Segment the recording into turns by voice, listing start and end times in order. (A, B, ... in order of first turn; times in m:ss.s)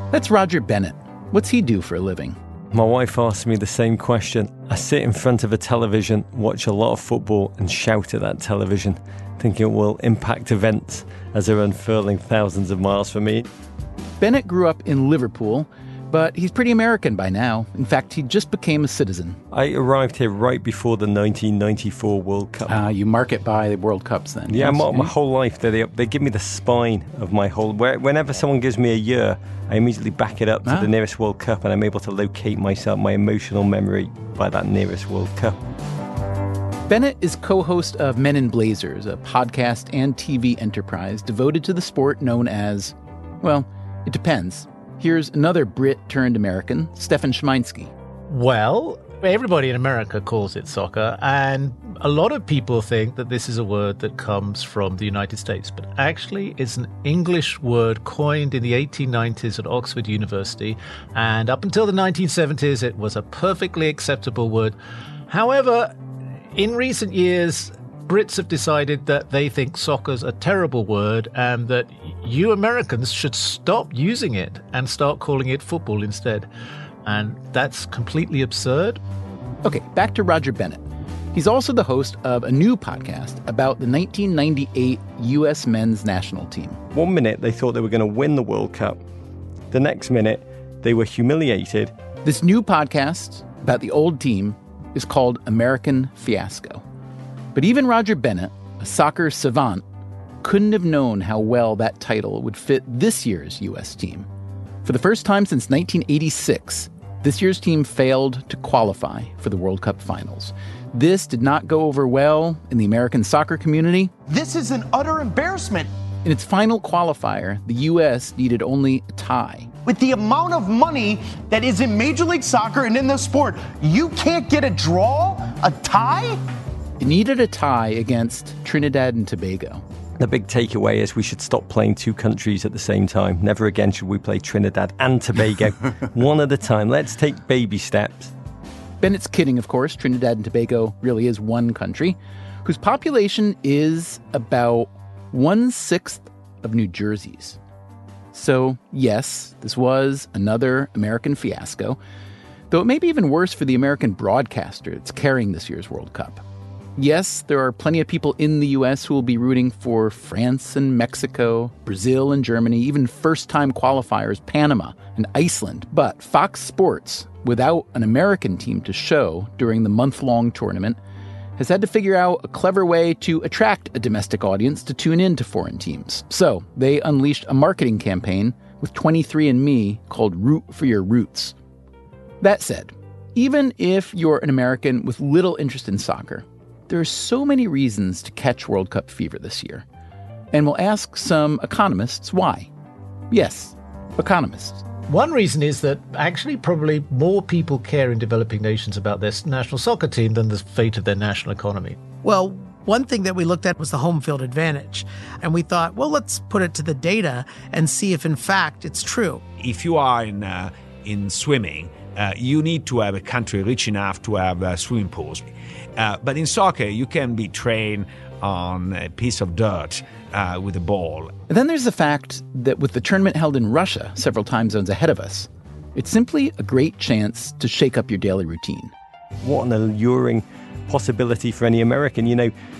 0:00.1-0:02.4 A
0:02.7-0:13.5 B
0:14.2-0:19.4 A
0:19.5-0:22.8 B
0:22.7-0:25.1 A
0:24.5-0:35.6 B
0:36.9-0:47.9 A
0:48.3-1:04.8 C
1:05.3-1:06.0 C
1:06.5-1:16.5 C
1:17.0-1:19.0 C
1:19.6-1:26.8 A
1:26.9-1:29.0 B
1:29.7-1:31.9 B
1:32.2-1:36.8 A
1:37.5-1:39.8 A
1:40.4-1:44.3 A
1:44.8-1:54.1 A
1:54.2-1:55.9 D
1:56.2-1:59.7 A
1:59.8-2:06.4 D
2:07.0-2:09.8 A
2:10.2-2:18.3 B
2:19.0-2:27.6 A
2:28.3-2:32.0 A
2:32.7-2:36.4 A
2:37.0-2:51.0 A
2:51.6-3:01.5 A
3:02.4-3:09.8 A
3:10.5-3:12.7 A
3:13.3-3:14.8 A
3:15.1-3:22.0 C
3:22.2-3:29.4 E
3:29.6-3:41.3 F
3:41.5-3:48.9 A
3:49.4-3:52.5 B